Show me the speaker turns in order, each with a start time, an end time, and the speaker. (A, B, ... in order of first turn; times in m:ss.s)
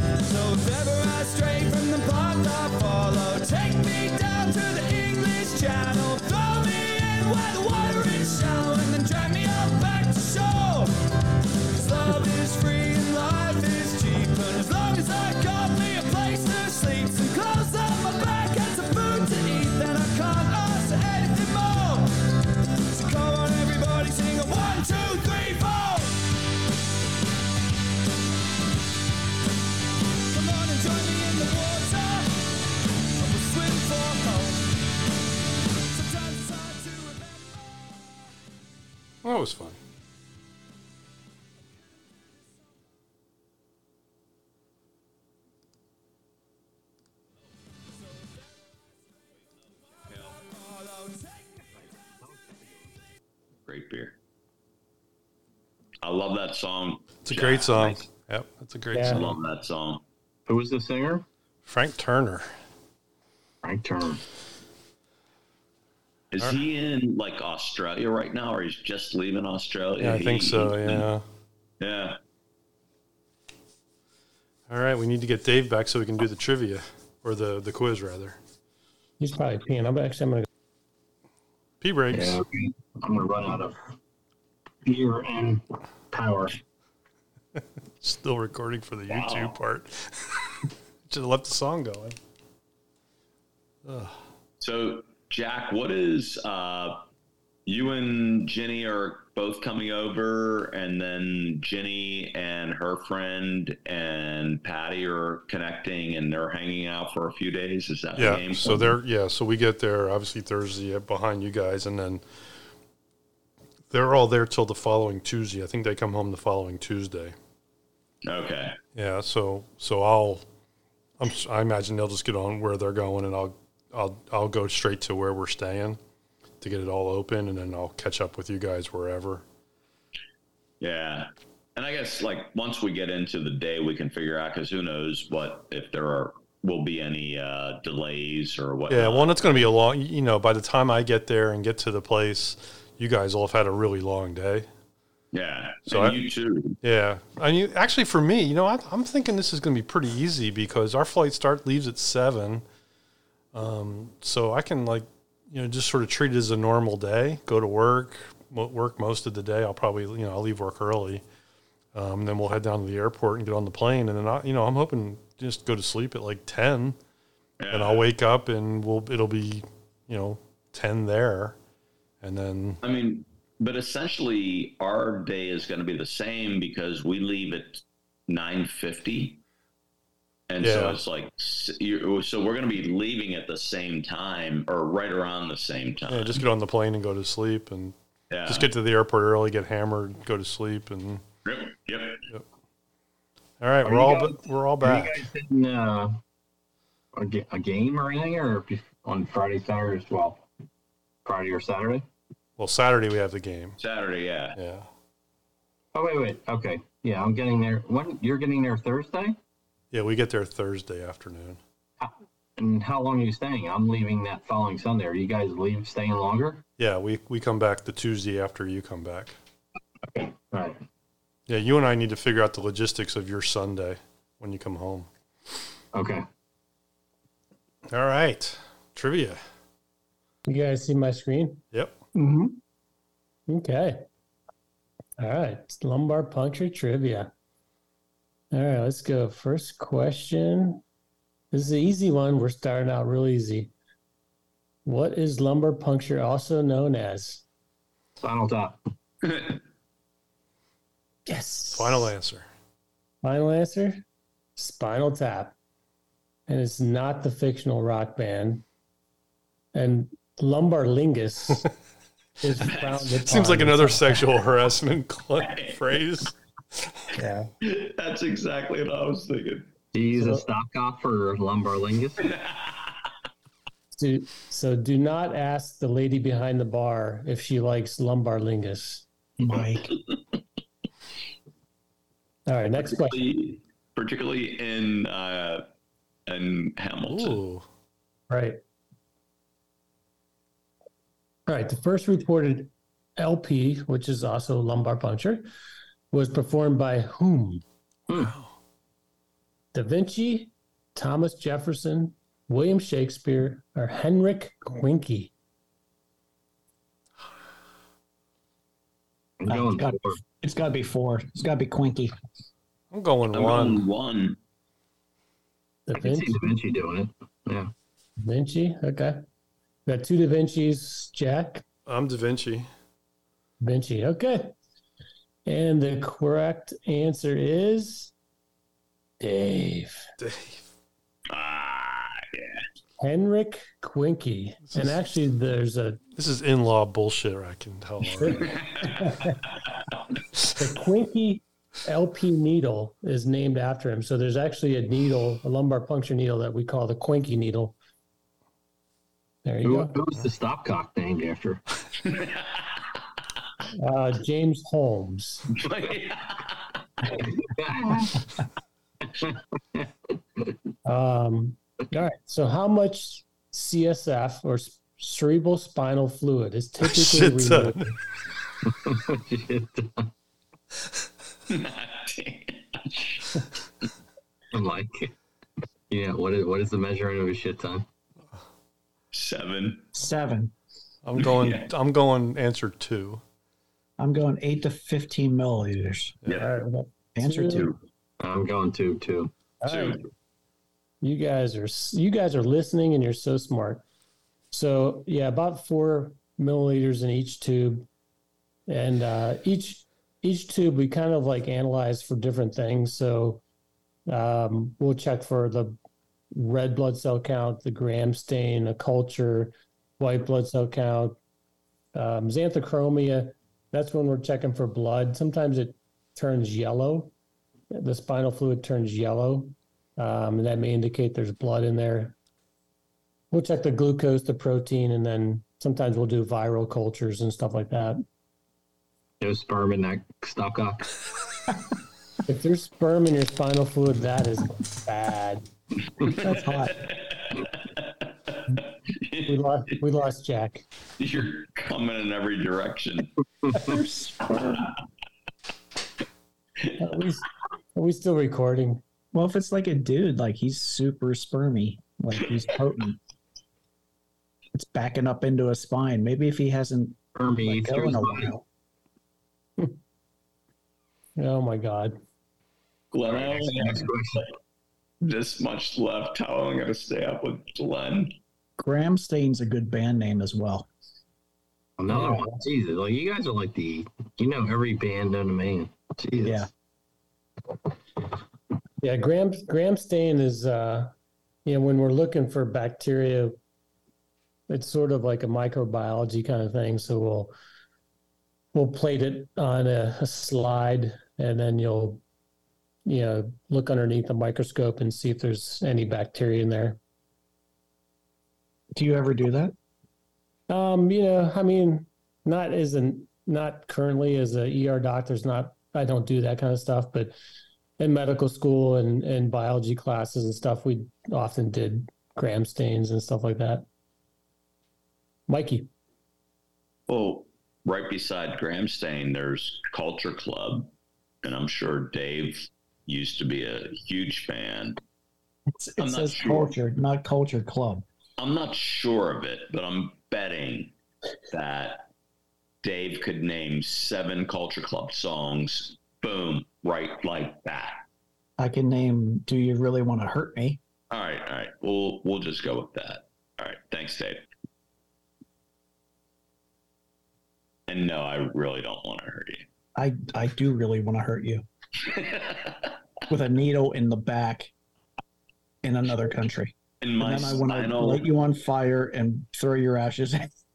0:00.2-0:10.9 A
0:11.7-0:22.1 A
0:22.9-0:26.2 A
0:30.2-0:32.5 A
0:33.2-0:34.8 A
0:35.8-0:38.1 A
0:39.2-0:39.8 B
0:48.1-0:48.7 A
0:49.9-0:51.6 A
0:50.1-0:50.4 C
0:53.6-0:54.1 C
0:56.0-0:58.1 C
0:57.2-0:59.3 B
0:58.9-0:59.2 D
0:59.1-1:00.0 C
1:00.4-1:01.2 E
1:01.6-1:02.5 B
1:03.6-1:04.2 E
1:06.3-1:11.1 C
1:10.0-1:11.2 B
1:11.8-1:12.2 C
1:14.7-1:18.4 B
1:19.2-1:20.5 D
1:21.8-1:22.4 B
1:22.1-1:23.8 E
1:24.8-1:26.6 E
1:28.0-1:30.1 B
1:29.1-1:29.5 C
1:31.1-1:32.2 B
1:33.8-1:34.1 B
1:34.6-1:37.0 C
1:37.6-1:49.0 C
1:48.2-1:52.2 B
1:53.9-1:57.3 B
1:58.2-1:58.8 C
1:58.9-2:00.4 B
2:01.2-2:06.0 B
2:06.6-2:09.4 B
2:10.8-2:19.7 C
2:18.9-2:24.7 B
2:25.3-2:26.8 C
2:25.9-2:26.2 B
2:26.8-2:32.6 B
2:33.5-2:41.2 B
2:41.9-2:47.0 B
2:47.6-2:48.0 C
2:47.7-2:51.6 B
2:52.2-2:52.8 B
2:52.8-2:59.4 C
3:00.5-3:06.4 C
3:00.6-3:01.0 B
3:06.1-3:07.9 B
3:08.3-3:08.7 C
3:08.5-3:11.2 B
3:11.4-3:12.2 C
3:13.6-3:15.2 B
3:13.8-3:16.2 E
3:17.1-3:20.4 E
3:21.2-3:22.0 E
3:22.6-3:23.8 B
3:23.8-3:24.6 C
3:24.5-3:24.9 B
3:25.9-3:29.4 E
3:29.9-3:31.6 B
3:32.0-3:36.6 E
3:36.8-3:39.3 B
3:40.1-3:40.8 E
3:41.5-3:45.1 B
3:45.9-3:46.2 E
3:47.9-3:49.4 B
3:50.5-3:51.6 D
3:52.1-3:52.5 F
3:53.5-3:54.0 D
3:55.2-3:57.3 D
3:58.5-4:00.8 D
4:01.5-4:03.7 D
4:04.8-4:07.4 D
4:08.2-4:08.8 E
4:11.3-4:12.1 D
4:11.7-4:12.5 B
4:13.2-4:14.0 D
4:14.6-4:15.5 D
4:16.5-4:18.6 D
4:19.7-4:21.6 D
4:22.4-4:24.2 D
4:22.7-4:23.0 C
4:23.2-4:26.3 B
4:25.4-4:25.8 C
4:27.1-4:27.5 D
4:27.6-4:29.7 C
4:29.9-4:32.3 E
4:30.2-4:30.4 D
4:32.3-4:32.7 C
4:33.9-4:39.0 D
4:39.4-4:39.9 F
4:42.5-4:43.2 D
4:42.8-4:45.6 C
4:46.3-4:47.4 C
4:47.0-4:47.6 B
4:48.3-4:48.6 D
4:51.5-4:55.5 D
4:56.1-4:57.6 D
4:58.1-4:58.5 B
4:59.7-5:05.3 D
5:09.4-5:10.2 E
5:09.5-5:12.1 F
5:12.9-5:13.8 B
5:13.3-5:14.4 C
5:15.8-5:16.4 D
5:15.9-5:17.7 E
5:18.2-5:19.2 D
5:19.8-5:21.6 D
5:21.8-5:22.7 B
5:23.6-5:24.5 D
5:25.4-5:28.1 D
5:29.2-5:30.1 D
5:30.2-5:30.6 B
5:31.3-5:32.6 C
5:33.0-5:36.0 D
5:34.7-5:35.0 B
5:36.2-5:38.6 B
5:38.2-5:39.4 D
5:38.4-5:38.9 C
5:40.6-5:47.7 D
5:49.4-5:50.0 D
5:49.6-5:51.6 E
5:52.1-5:52.5 C
5:53.8-5:55.4 D
5:55.6-5:56.6 C
5:57.6-5:58.2 E
5:59.2-5:59.9 E
6:00.8-6:07.9 D
6:06.8-6:07.9 B
6:08.6-6:10.1 E
6:11.5-6:13.2 C
6:14.5-6:15.1 E
6:15.9-6:17.8 E
6:19.1-6:19.9 C
6:19.9-6:20.5 F
6:21.0-6:23.2 B
6:21.2-6:21.7 C
6:24.0-6:26.2 F
6:26.4-6:27.6 D
6:27.2-6:27.7 F
6:27.5-6:27.8 C
6:28.2-6:29.3 E
6:29.6-6:30.0 D
6:29.6-6:30.0 C
6:31.0-6:33.8 D
6:34.5-6:37.9 D
6:38.7-6:43.4 D
6:44.1-6:45.8 D
6:46.3-6:51.2 D
6:51.9-6:57.1 D
6:57.7-7:02.1 D
7:03.3-7:08.0 D
7:09.2-7:10.8 E
7:12.3-7:15.4 D
7:16.2-7:16.8 F
7:16.8-7:19.3 C
7:19.2-7:20.6 D
7:21.0-7:23.1 C
7:23.5-7:24.7 F
7:26.8-7:28.8 D
7:29.1-7:33.0 F
7:34.5-7:38.4 F
7:37.2-7:38.3 E
7:41.2-7:42.0 D
7:42.9-7:43.9 C
7:43.1-7:44.3 E
7:45.0-7:48.1 C
7:48.6-7:50.7 F
7:51.8-7:56.5 E
7:51.9-7:52.3 D
7:56.2-7:56.5 F
7:58.8-8:00.9 D
8:01.4-8:03.4 D
8:04.5-8:07.3 D
8:08.5-8:12.0 D
8:12.8-8:16.8 D
8:18.7-8:19.5 F
8:20.5-8:27.1 D
8:27.8-8:33.6 D
8:35.3-8:35.7 D
8:36.9-8:40.7 C
8:41.2-8:44.8 C
8:45.5-8:47.8 F
8:45.8-8:46.5 C
8:48.2-8:50.7 C
8:51.3-8:51.9 C
8:52.6-8:57.8 C
8:58.4-9:00.6 F
9:00.9-9:04.2 C
9:07.7-9:09.4 C
9:09.7-9:11.4 F
9:11.9-9:12.6 C
9:13.1-9:14.5 F
9:15.6-9:20.3 F
9:16.8-9:18.0 C